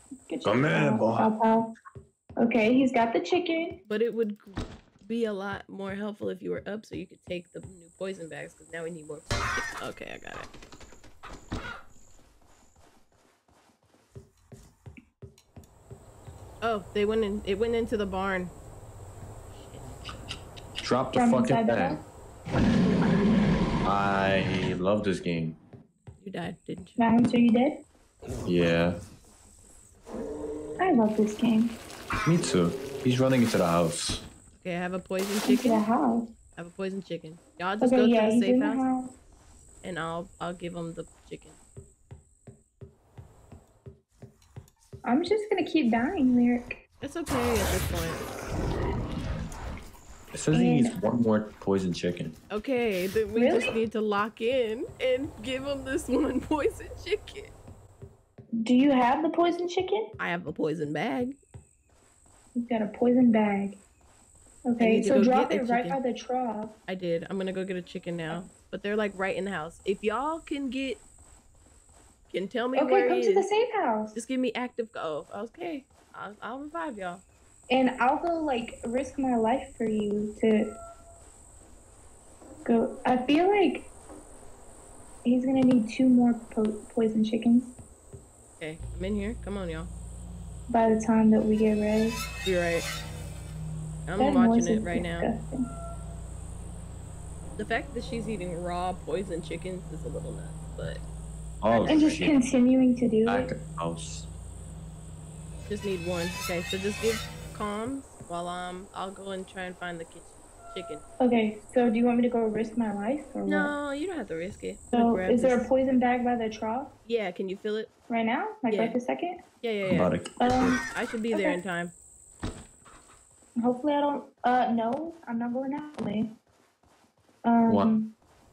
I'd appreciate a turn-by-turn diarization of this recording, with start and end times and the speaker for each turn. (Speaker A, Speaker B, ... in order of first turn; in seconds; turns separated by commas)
Speaker A: 0.3-1.7, Speaker B: 0.4-1.3, Speaker A: 2.4-3.8, Speaker C: 3.9-10.5, Speaker C: 16.6-18.5, Speaker C: 19.5-19.9, Speaker B: 20.8-22.0, Speaker A: 21.1-22.0, Speaker B: 23.8-25.6, Speaker C: 26.2-27.0, Speaker A: 27.0-27.8, Speaker B: 28.4-29.0, Speaker C: 29.3-29.7, Speaker A: 30.8-31.8, Speaker B: 32.2-34.2, Speaker C: 34.5-35.9, Speaker A: 35.4-36.3, Speaker C: 36.5-38.8, Speaker A: 37.8-39.1, Speaker C: 39.8-41.6, Speaker A: 45.0-46.8, Speaker C: 47.0-48.3, Speaker B: 50.3-52.4, Speaker A: 50.5-50.9, Speaker C: 52.5-57.5, Speaker A: 53.3-53.7, Speaker A: 58.6-60.1, Speaker C: 60.2-61.4, Speaker A: 62.5-63.8, Speaker A: 64.7-66.8, Speaker C: 64.8-66.0, Speaker C: 66.9-71.0, Speaker C: 72.3-73.5, Speaker A: 72.7-74.2, Speaker C: 74.1-77.2, Speaker A: 77.7-80.7, Speaker A: 82.6-83.9, Speaker A: 85.2-87.7, Speaker C: 88.6-89.9, Speaker A: 90.7-92.2, Speaker C: 92.4-92.9, Speaker C: 94.1-95.3, Speaker A: 94.2-95.7, Speaker C: 97.6-101.0, Speaker B: 101.6-102.3, Speaker C: 101.7-102.2, Speaker A: 101.9-103.5, Speaker B: 103.2-104.3, Speaker C: 105.7-111.0, Speaker A: 111.2-113.7, Speaker C: 113.4-115.7, Speaker A: 114.9-116.9, Speaker C: 117.0-117.9, Speaker A: 118.1-119.4, Speaker C: 118.7-119.0, Speaker C: 119.6-120.1, Speaker B: 119.8-120.8, Speaker A: 120.4-121.6, Speaker C: 120.9-121.9, Speaker A: 123.5-126.3, Speaker A: 127.4-128.1, Speaker B: 127.7-127.9